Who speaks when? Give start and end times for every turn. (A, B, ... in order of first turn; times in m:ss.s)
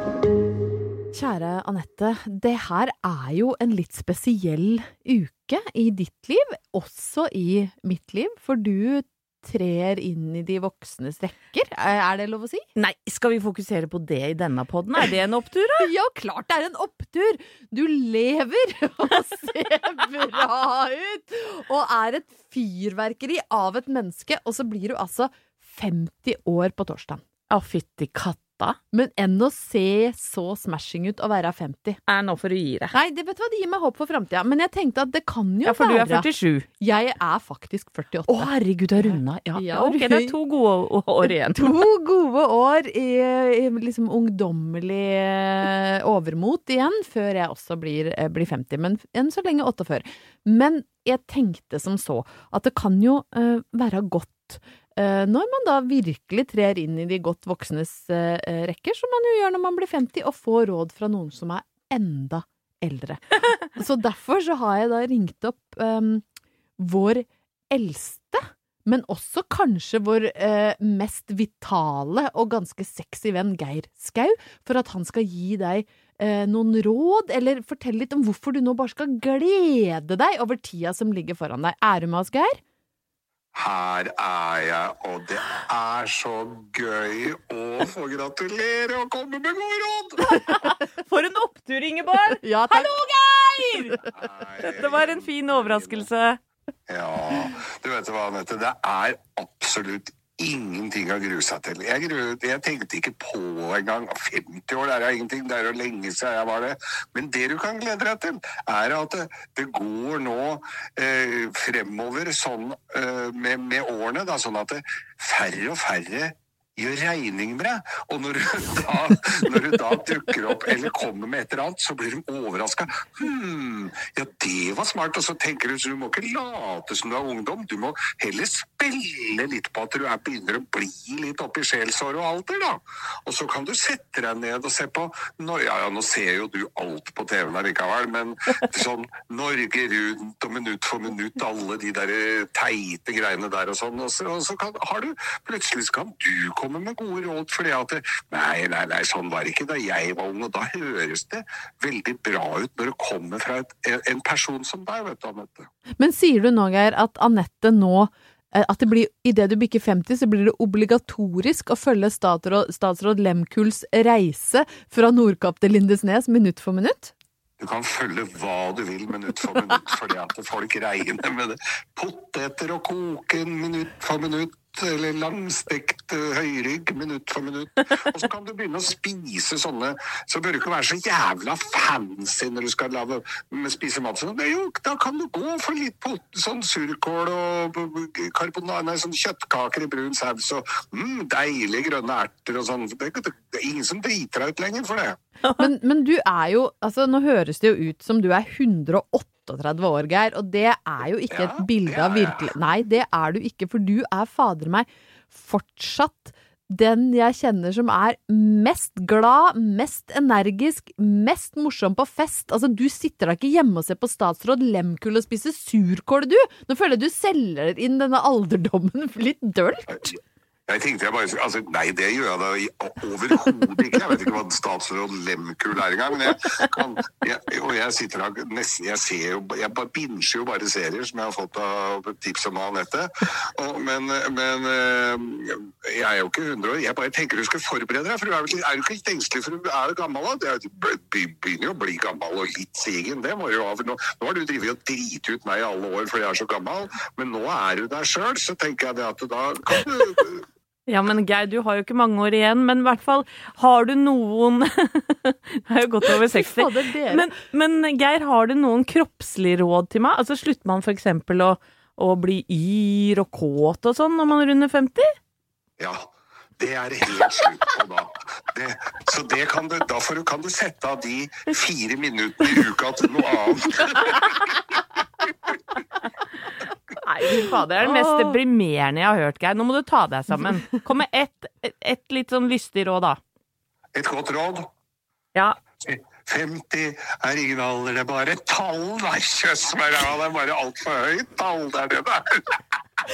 0:01.1-0:12.6 A
0:12.8-0:15.9 B
0:15.8-0:27.2 A
0:27.5-0:28.8 B
0:28.9-0:32.0 A
0:32.1-0:32.9 B
0:32.9-0:36.3 A
0:35.6-0:36.7 B
0:36.8-0:40.3 A
0:38.3-0:41.8 B
0:41.5-1:06.2 A
1:06.8-1:22.6 A
1:23.5-1:30.2 C
1:30.3-1:32.9 B
1:32.4-1:34.1 A
1:34.1-1:36.0 C
1:34.6-1:36.4 B
1:36.9-2:35.7 C
2:36.0-2:47.1 A
2:47.6-3:15.2 C
3:15.6-3:40.0 A
3:21.3-3:22.5 C
3:40.7-4:10.4 C
4:10.9-4:25.1 B
4:16.2-4:17.3 A
4:25.8-4:26.1 C
4:26.6-4:34.3 C
4:37.0-4:43.2 B
4:37.8-4:38.4 A
4:43.9-4:44.7 C
4:45.8-4:52.5 C